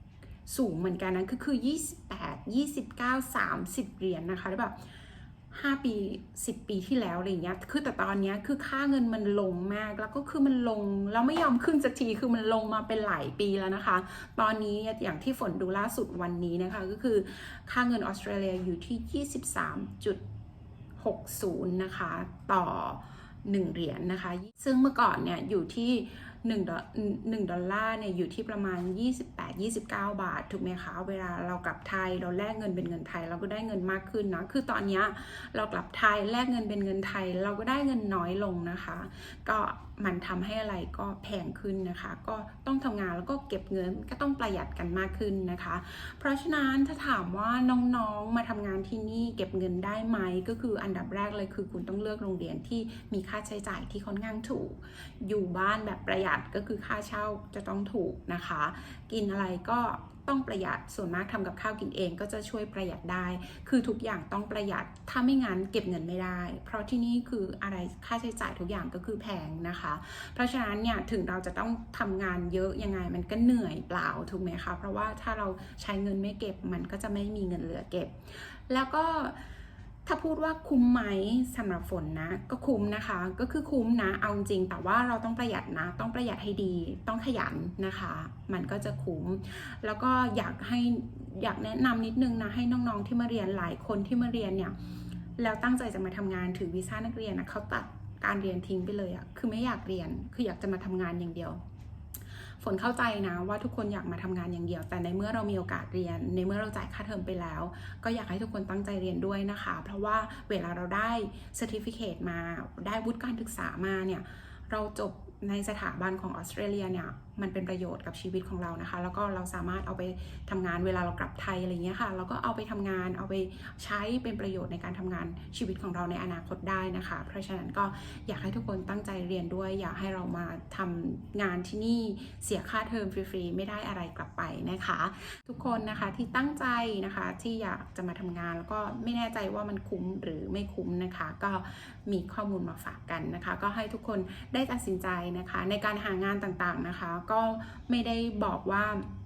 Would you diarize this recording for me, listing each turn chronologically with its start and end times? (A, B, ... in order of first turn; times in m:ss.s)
0:00.5-0:04.8 A
0:05.5-0:20.2 A
0:21.0-1:19.4 A
1:20.0-1:34.7 A
1:35.4-1:41.6 A
1:42.6-2:29.1 A